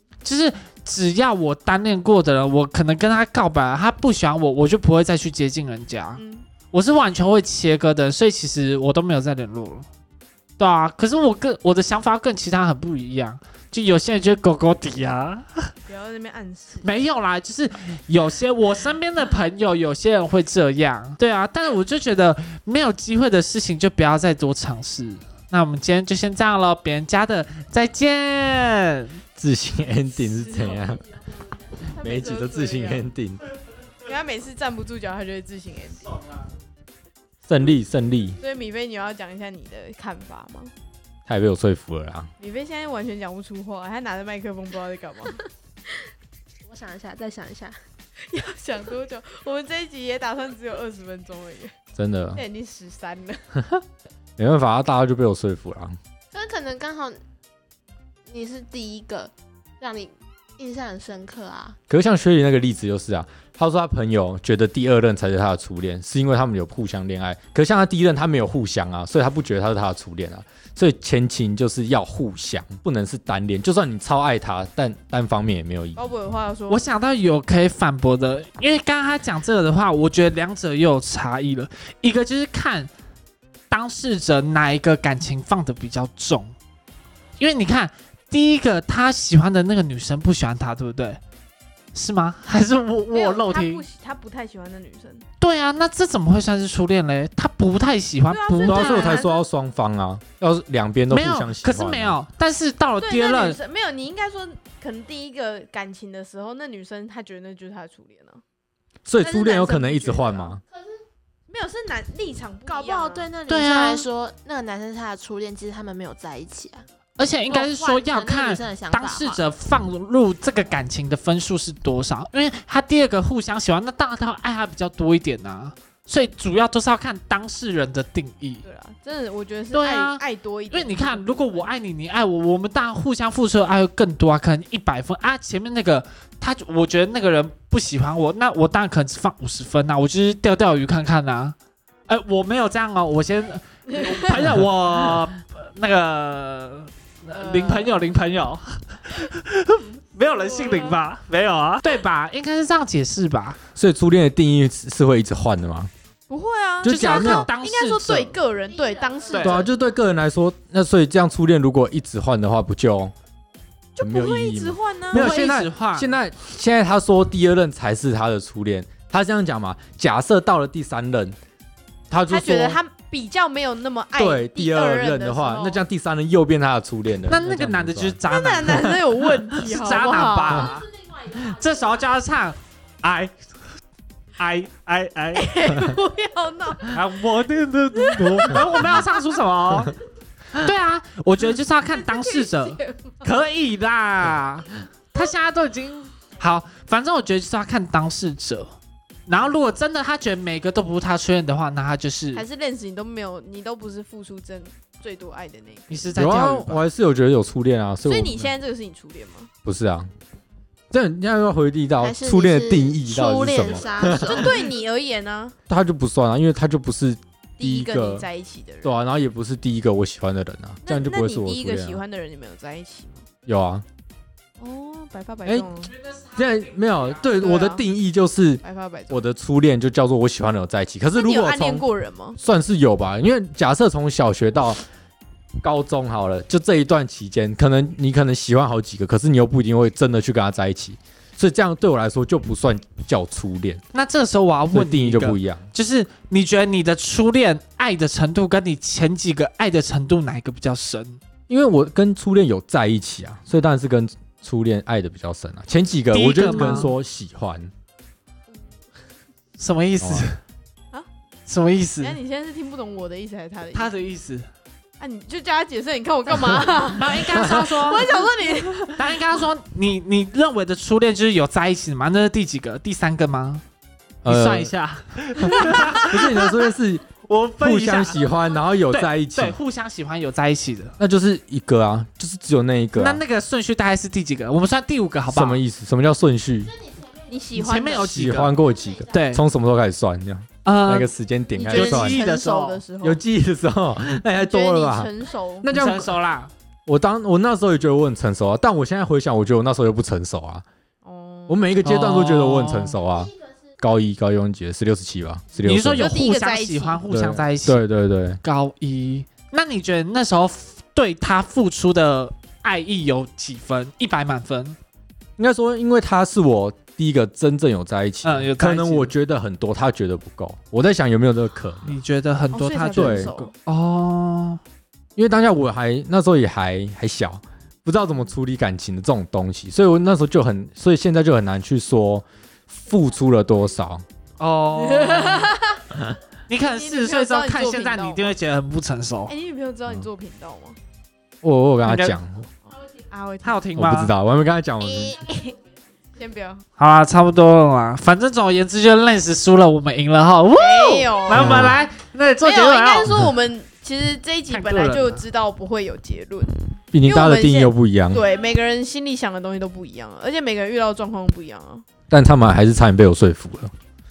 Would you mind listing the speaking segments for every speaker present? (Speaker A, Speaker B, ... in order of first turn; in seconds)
Speaker A: 0.2-6.2, 6.7-9.9, 10.6-15.7, 16.8-29.2, 76.7-82.9, 83.7-86.5, 87.4-91.2, 91.9-93.8, 95.4-99.2, 101.1-103.6, 113.5-114.1, 117.2-128.6, 129.7-141.5, 142.1-153.6, 156.8-158.3, 159.3-159.7, 165.1-166.1, 177.3-179.0, 179.6-183.3, 184.4-185.5, 186.9-189.9, 190.5-198.7, 199.3-202.4, 205.9-206.8, 225.9-227.3, 243.9-251.2, 256.1-256.9, 259.6-260.4, 261.5-262.2, 263.7-264.5, 266.9-268.2, 268.9-273.6, 274.2-276.5, 277.2-280.9, 282.9-285.6, 287.6-288.5, 289.1-289.4, 290.6-291.1, 291.7-292.8, 295.7-296.5, 301.8-303.0, 305.6-307.8, 308.4-314.8, 318.2-319.1, 321.9-324.6, 334.4-335.6, 336.5-339.3, 341.8-342.1, 343.4-344.1, 346.8-353.2, 354.5-355.2
Speaker B: 6.2-6.5, 15.8-16.9, 31.9-33.1, 34.0-36.4, 38.4-40.7, 42.4-45.4, 48.3-51.7, 52.4-53.4, 76.0-76.9, 93.1-95.2, 98.3-99.4, 103.0-108.4, 109.2-110.6, 111.5-113.3, 128.6-131.7, 147.3-147.9, 150.2-151.0, 156.3-159.7, 163.9-165.4, 172.3-175.8, 178.3-180.8, 185.3-187.0, 187.9-189.2, 191.9-193.3, 202.3-206.1, 208.0-209.5, 214.1-215.6, 217.6-218.9, 220.8-223.2, 224.6-225.9, 227.3-227.8, 228.6-229.2, 231.1-232.4, 256.5-256.9, 262.0-264.1, 265.0-269.1, 275.5-276.0, 287.2-288.5, 291.5-293.2, 294.3-295.7, 301.0-301.7, 305.9-307.0, 322.5-323.5, 334.8-335.8, 336.6-338.3, 339.3-340.8, 342.8-343.6, 344.9-345.6, 346.1-346.6, 350.5-351.6, 352.4-361.8
Speaker C: 29.4-31.2, 31.9-33.4, 37.5-38.4, 41.3-42.3, 52.0-52.4, 54.4-56.0, 61.9-76.0, 98.6-102.2, 109.0-110.6, 153.7-155.9, 156.8-157.5, 159.3-163.1, 164.0-171.3, 172.1-172.8, 174.2-179.0, 206.2-208.5, 209.6-210.1, 210.9-214.5, 215.7-218.3, 218.8-222.0, 223.4-223.8, 226.3-231.8, 232.4-234.8, 235.6-243.8, 244.7-245.7, 251.5-257.7, 260.0-260.2, 274.2-274.7, 275.5-279.6, 281.0-283.2, 285.3-286.8, 288.0-292.2, 293.0-296.1, 296.9-300.6, 301.5-306.1, 307.1-308.4, 315.4-322.0, 322.9-323.3, 325.1-334.0, 341.4-342.5, 343.8-345.2, 351.3-351.8, 356.9-358.2, 362.1-363.7
Speaker D: 46.6-47.8, 56.3-57.2, 58.3-61.8, 110.7-111.0, 112.7-116.8, 117.5-119.4, 212.0-214.4, 288.8-289.1